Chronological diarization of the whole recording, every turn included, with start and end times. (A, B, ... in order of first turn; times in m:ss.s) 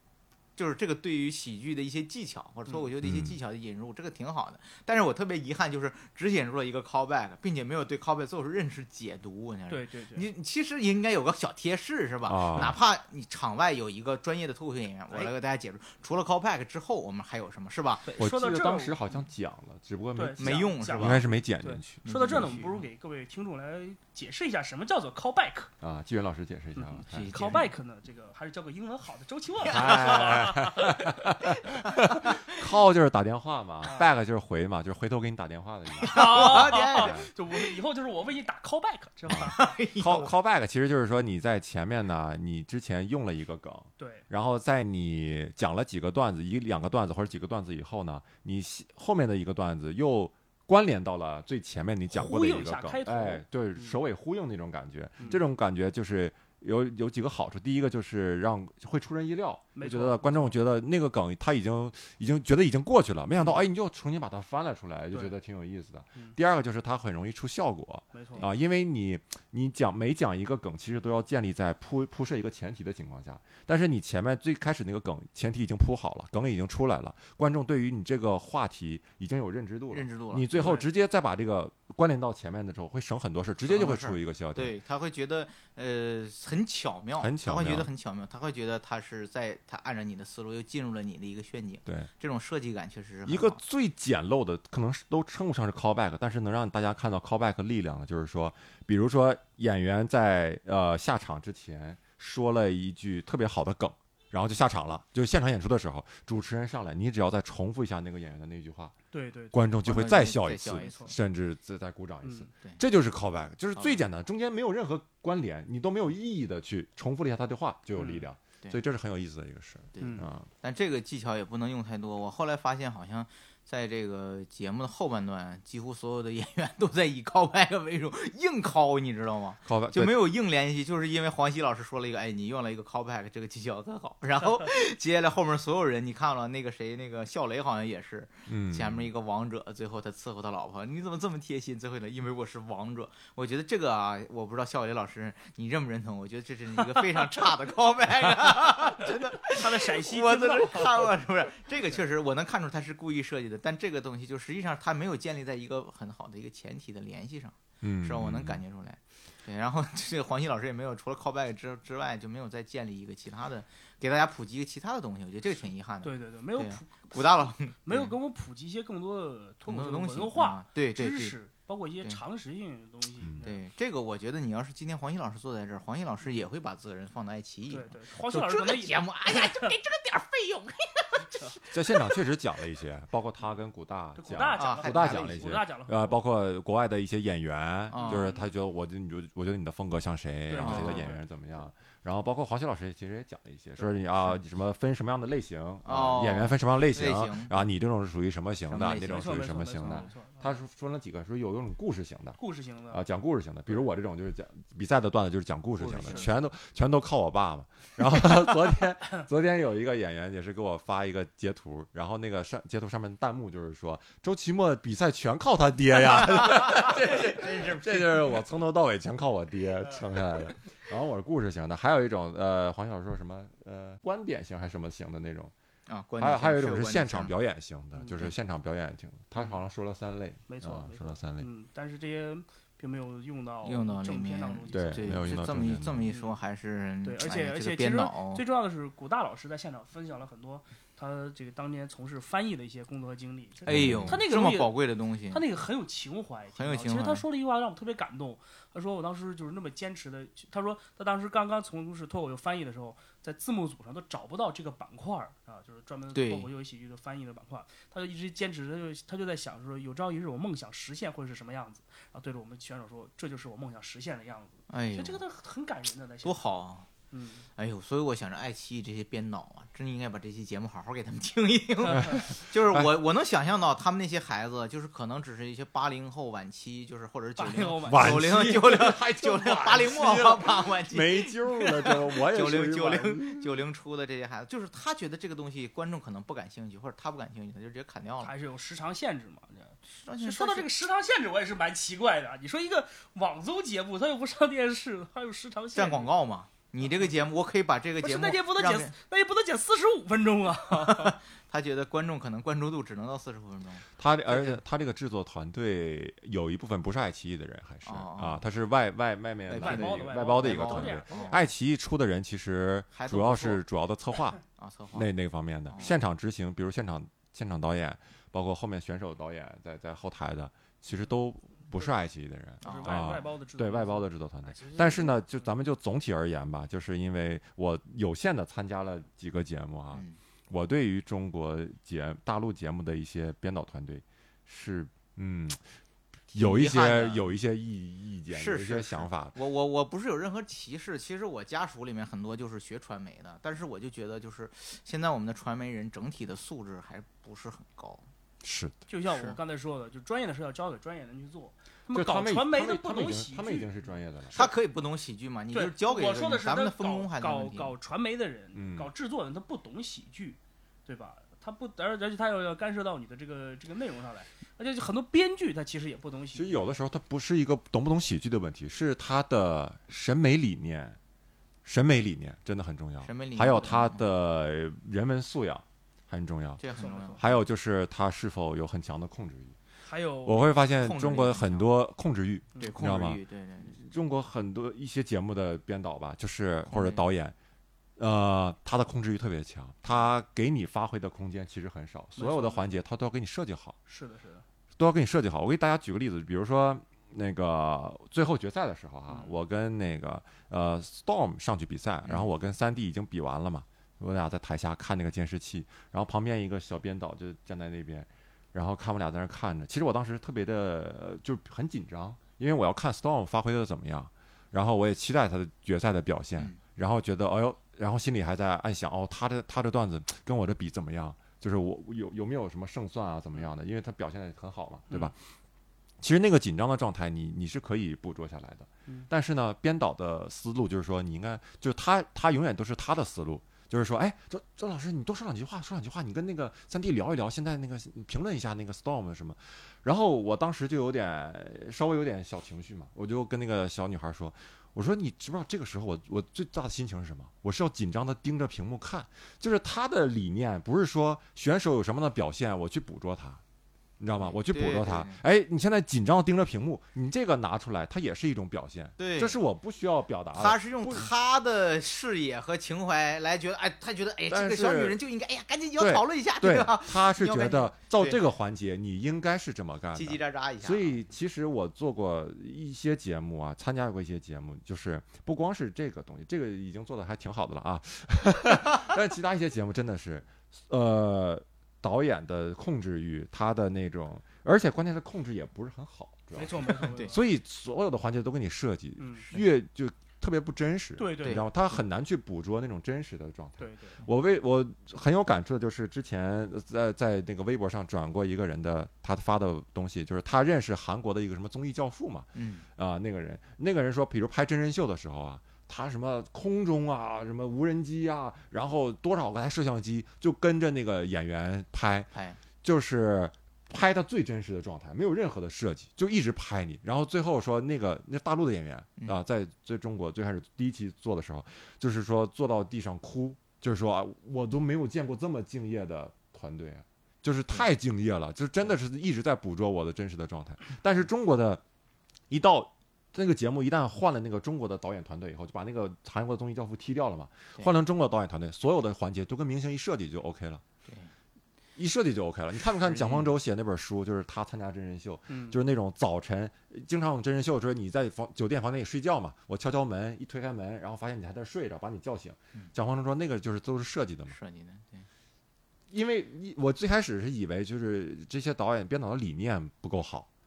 0:00.6-0:18.1 A
0:03.0-0:03.4 B
0:09.7-0:10.3 C
0:12.3-0:12.8 B
0:18.1-0:19.0 C
0:18.2-0:22.5 B
0:20.2-0:25.7 C
0:20.4-0:21.2 A
0:22.0-0:22.8 A
0:25.8-0:27.3 B
0:26.8-0:31.2 C
0:27.1-0:27.7 A
0:29.6-0:37.3 B
0:29.6-0:30.5 A
0:31.8-0:32.3 A
0:33.8-0:34.1 C
0:36.0-0:37.7 A
0:36.0-0:39.7 C
0:39.3-1:24.7 B
0:39.4-0:40.3 A
0:44.0-0:44.2 C
0:52.1-0:54.0 C
0:59.8-1:00.6 C
1:08.1-1:08.5 C
1:19.9-1:20.6 A
1:20.6-1:20.8 C
1:23.7-1:33.6 A
1:27.2-1:27.9 B
1:31.8-1:32.1 B
1:33.3-1:49.0 B
1:49.1-1:49.6 C
1:49.5-2:00.5 B
1:49.8-1:51.2 A
1:50.8-1:51.1 C
1:52.2-1:52.5 C
1:58.0-1:58.3 C
2:00.0-2:48.1 A
2:00.0-2:00.3 C
2:09.6-2:10.2 B
2:18.5-2:19.1 B
2:29.4-2:31.1 C
2:37.8-2:38.6 B
2:46.0-2:53.6 C
2:49.7-2:51.4 A
2:53.4-3:02.1 A
2:57.7-2:59.7 C
3:01.7-3:22.4 B
3:04.2-3:06.2 C
3:04.6-3:05.5 A
3:07.9-3:08.3 A
3:08.0-3:08.5 C
3:10.5-3:11.2 C
3:10.6-3:11.1 A
3:15.8-3:17.6 A
3:18.7-3:19.4 A
3:19.0-3:20.5 C
3:22.4-3:23.0 C
3:22.9-3:45.5 B
3:25.8-3:26.3 A
3:25.9-3:26.3 C
3:36.2-3:38.4 A
3:45.9-3:47.3 A
3:46.2-3:51.5 B
3:50.5-3:55.1 C
3:53.6-3:58.4 A
3:54.7-3:56.1 B
3:56.1-3:56.4 C
3:57.0-4:04.8 C
4:03.7-4:04.2 B
4:03.7-4:05.4 A
4:05.3-4:26.4 C
4:06.6-4:07.2 A
4:16.1-4:16.5 A
4:24.7-4:25.2 A
4:26.2-4:26.9 A
4:27.1-4:27.5 C
4:27.6-4:48.3 A
4:31.9-4:32.2 C
4:32.0-4:32.8 B
4:37.4-4:38.4 C
4:37.9-4:43.5 B
4:41.6-4:42.0 C
4:48.2-4:56.1 C
4:49.9-4:50.7 A
4:55.8-4:58.9 A
4:56.8-4:57.1 C
4:58.0-5:01.2 C
5:00.7-5:04.6 A
5:04.0-5:14.4 B
5:07.8-5:08.4 A
5:09.5-5:11.5 A
5:09.6-5:11.4 C
5:12.9-5:13.6 A
5:14.6-5:15.1 A
5:14.9-5:35.6 B
5:15.7-5:16.0 A
5:22.6-5:23.1 A
5:22.6-5:25.2 C
5:29.9-5:30.2 A
5:36.3-5:39.4 B
5:36.4-5:37.3 A
5:38.3-5:48.0 A
5:48.4-5:48.8 B
5:48.9-5:53.7 C
5:49.1-5:49.4 A
5:51.9-5:54.4 B
5:54.3-5:57.7 A
5:55.5-6:06.6 C
5:58.5-5:58.9 B
6:06.3-6:11.0 B
6:11.6-6:16.6 B
6:13.0-6:14.0 A
6:16.6-6:17.4 A
6:16.8-6:17.2 C
6:17.2-6:19.6 B
6:19.8-6:20.5 C
6:20.2-6:27.4 B
6:20.8-6:21.7 A
6:22.6-6:22.8 C
6:22.6-6:23.8 A
6:26.7-6:27.0 A
6:28.0-6:33.8 B
6:32.2-6:32.7 C
6:33.9-6:34.4 C
6:34.8-7:05.2 B
7:06.0-7:33.4 B
7:34.0-7:41.1 B
7:34.2-7:35.2 A
7:39.0-7:39.4 A
7:40.4-7:48.2 A
7:44.3-7:45.0 B
7:45.8-8:32.1 B
7:49.9-7:51.0 A
8:06.4-8:07.2 C
8:09.0-8:09.3 C
8:11.0-8:11.5 C
8:11.2-8:11.5 A
8:13.6-8:14.0 C
8:22.3-8:22.7 A
8:32.1-8:32.4 A
8:32.6-8:51.6 B
8:52.3-9:00.6 B
9:01.8-9:14.4 B
9:02.8-9:03.3 A
9:05.3-9:05.6 C
9:14.3-9:15.1 A
9:15.9-9:20.3 B